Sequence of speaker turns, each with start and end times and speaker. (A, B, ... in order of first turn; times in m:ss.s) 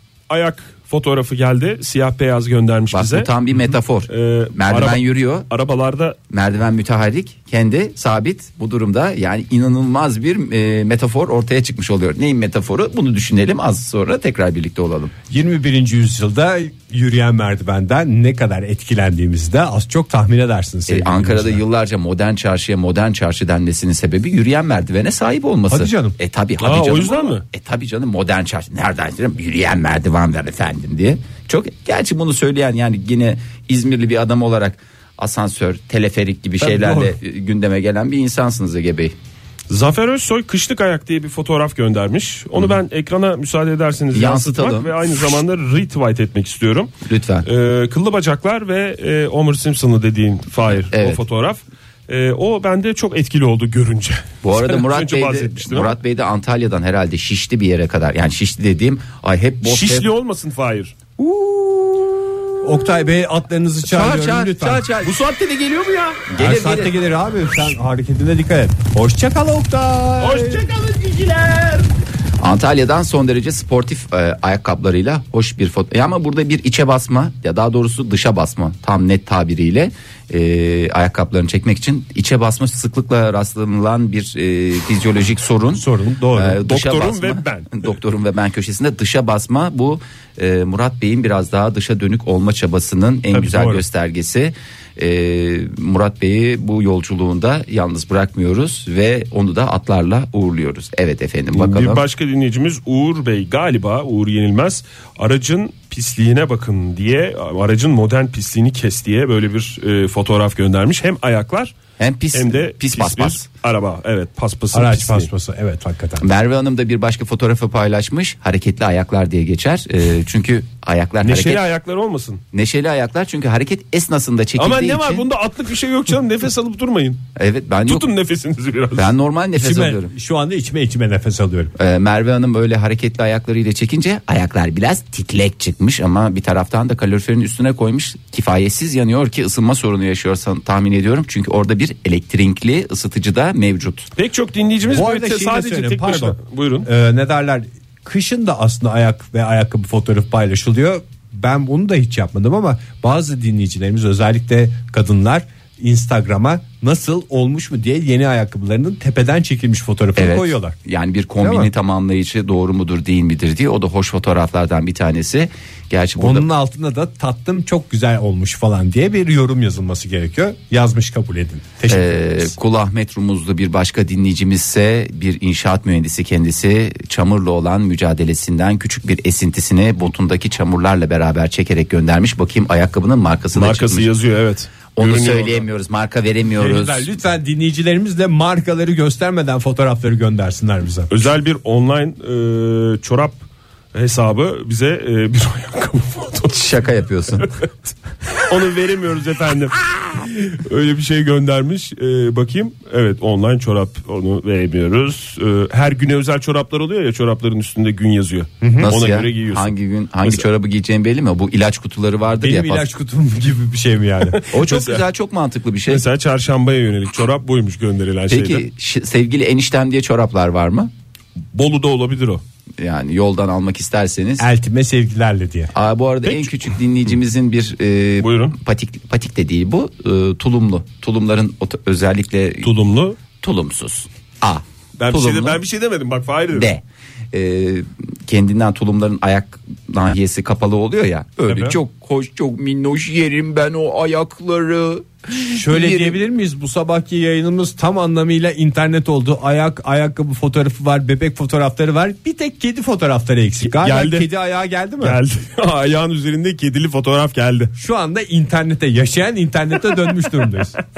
0:00.3-0:03.3 A
0:02.9-0:05.5 B
0:04.1-0:06.2 A
0:06.3-0:15.1 B
0:15.3-0:21.6 C
0:20.9-0:39.1 B
0:25.7-0:26.2 C
0:26.6-0:27.4 A
0:36.6-0:37.2 C
0:39.7-0:46.9 A
0:44.1-0:45.3 B
0:47.1-0:47.5 B
0:47.4-0:56.0 A
0:50.9-0:51.2 B
0:54.4-1:00.1 B
0:59.6-1:01.0 A
1:01.2-1:02.1 C
1:02.6-1:04.8 C
1:03.8-1:05.1 B
1:05.0-1:06.2 A
1:06.3-1:07.0 B
1:06.4-1:10.7 C
1:10.2-1:11.9 A
1:12.4-1:42.0 B
1:25.8-1:26.6 C
1:26.6-1:27.9 A
1:33.3-1:33.8 C
1:41.5-1:51.8 A
1:52.0-1:53.4 B
1:52.3-1:55.3 A
1:54.7-1:56.3 C
1:56.2-2:01.6 B
2:01.2-2:02.4 A
2:02.5-2:05.3 B
2:04.6-2:07.2 A
2:07.4-2:08.1 B
2:07.9-2:09.1 A
2:09.0-2:10.1 B
2:09.6-2:11.7 C
2:11.8-2:24.1 B
2:24.2-2:26.9 A
2:24.9-2:40.8 C
2:40.2-2:46.5 B
2:41.4-2:41.7 C
2:46.2-2:52.5 C
2:51.9-3:04.1 B
3:03.6-3:05.6 A
3:05.0-3:07.1 B
3:06.6-3:11.1 C
3:11.1-3:13.4 A
3:13.9-3:16.6 A
3:16.5-3:17.5 B
3:18.4-3:29.7 A
3:28.6-3:28.9 C
3:28.8-3:32.8 B
3:32.4-3:34.4 C
3:34.3-3:35.0 A
3:34.5-3:36.0 B
3:35.9-3:38.6 A
3:38.3-3:40.9 B
3:41.5-3:42.4 A
3:42.8-3:44.5 B
3:44.4-3:45.7 C
3:45.7-3:52.7 B
3:48.2-3:48.6 A
3:52.6-3:53.2 A
3:53.4-3:55.6 B
3:55.0-3:56.7 A
3:56.5-4:06.2 B
4:01.5-4:01.8 A
4:05.5-4:15.2 C
4:13.6-4:14.3 A
4:15.0-4:17.7 A
4:17.8-4:20.8 C